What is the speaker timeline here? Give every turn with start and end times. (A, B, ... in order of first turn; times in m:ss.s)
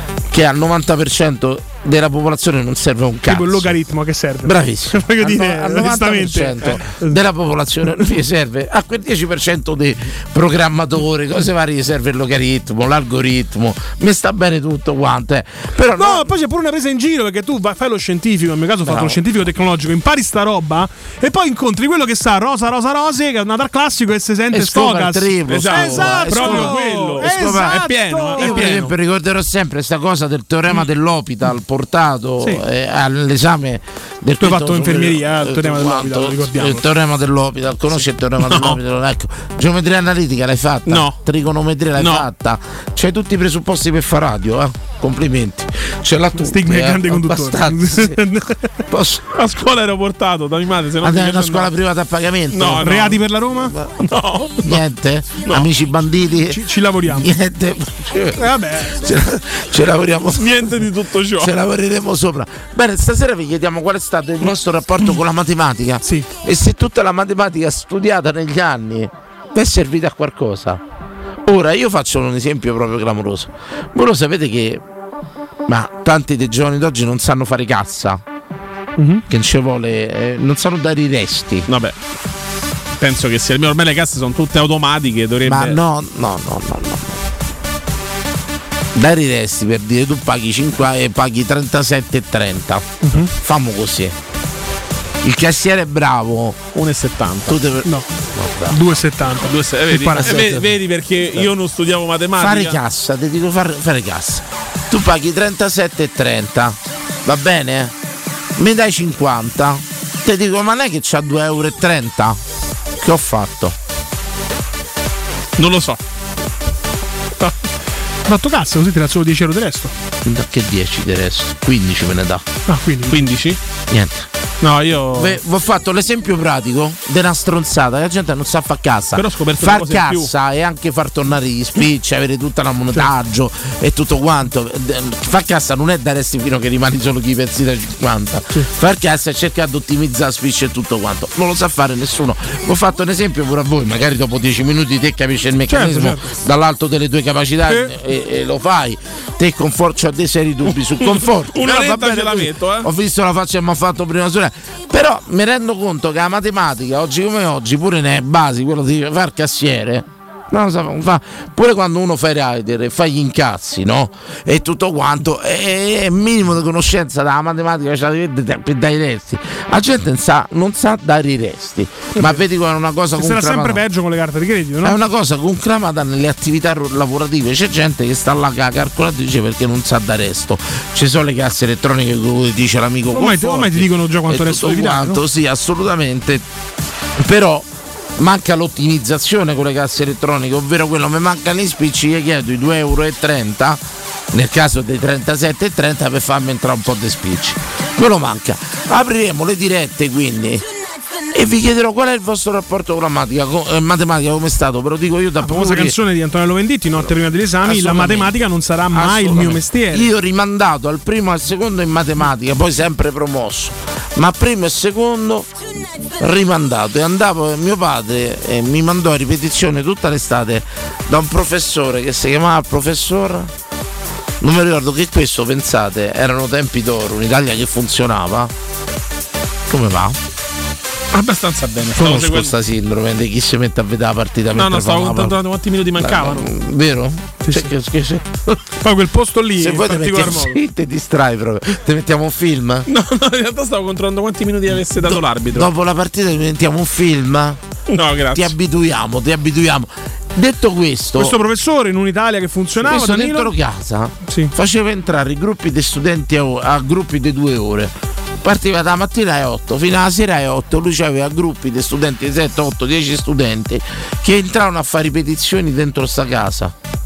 0:00.3-0:03.7 A
0:03.3-0:07.2 B
0:04.4-0:16.3 A
0:16.0-0:28.8 B
0:18.8-0:19.2 A
0:24.5-0:48.2 A
0:25.5-0:28.9 C
0:34.4-0:36.8 B
0:38.5-0:38.8 C
0:40.8-0:41.2 C
0:42.0-0:42.2 C
0:46.4-0:48.7 B
0:48.9-0:49.4 A
0:49.3-0:51.7 C
0:51.0-0:53.0 A
0:52.5-0:53.2 C
0:52.8-0:53.7 B
0:53.6-0:54.1 A
0:54.0-0:54.8 C
0:54.6-1:00.7 A
0:56.5-0:57.3 B
0:58.4-0:59.0 B
1:00.3-1:01.5 C
1:01.4-1:10.8 A
1:06.0-1:06.3 B
1:11.4-1:14.8 A
1:15.7-1:18.2 A
1:19.0-1:19.2 B
1:19.3-1:21.7 A
1:21.7-1:21.9 C
1:23.0-1:25.8 C
1:25.4-1:27.2 A
1:28.9-1:34.2 A
1:33.0-1:33.3 B
1:35.2-1:36.7 A
1:36.7-1:37.6 C
1:37.5-1:38.8 A
1:38.7-1:40.4 B
1:39.4-1:42.8 C
1:40.1-1:40.7 A
1:42.4-1:47.9 A
1:48.6-1:52.4 A
1:53.0-1:53.8 A
1:55.6-1:56.0 C
1:58.2-1:59.9 B
2:00.2-2:02.4 A
2:02.7-2:03.2 B
2:03.1-2:03.6 C
2:03.9-2:04.3 A
2:04.6-2:05.4 C
2:05.1-2:53.8 A
2:09.1-2:10.3 C
2:25.7-2:26.3 B
2:27.6-2:27.9 B
2:30.7-2:32.9 C
2:52.2-2:52.4 B
2:53.2-2:55.0 B
2:54.8-3:06.4 A
3:03.1-3:05.2 B
3:07.2-3:13.8 A
3:14.3-3:20.6 A
3:21.3-3:26.0 A
3:25.4-3:30.1 B
3:27.6-3:28.4 A
3:28.9-3:35.5 A
3:36.2-3:43.5 A
3:44.4-3:48.5 A
3:49.7-3:50.2 A
3:51.1-3:52.5 C
3:51.9-3:55.4 A
3:54.5-3:56.5 C
3:56.0-3:58.6 A
3:57.4-3:57.7 B
3:58.8-4:00.6 B
3:59.6-4:02.9 A
4:02.9-4:05.7 C
4:05.0-4:07.6 A
4:07.9-4:08.5 C
4:08.3-4:11.4 A
4:11.2-4:13.5 B
4:12.8-4:26.7 A
4:14.3-4:14.5 B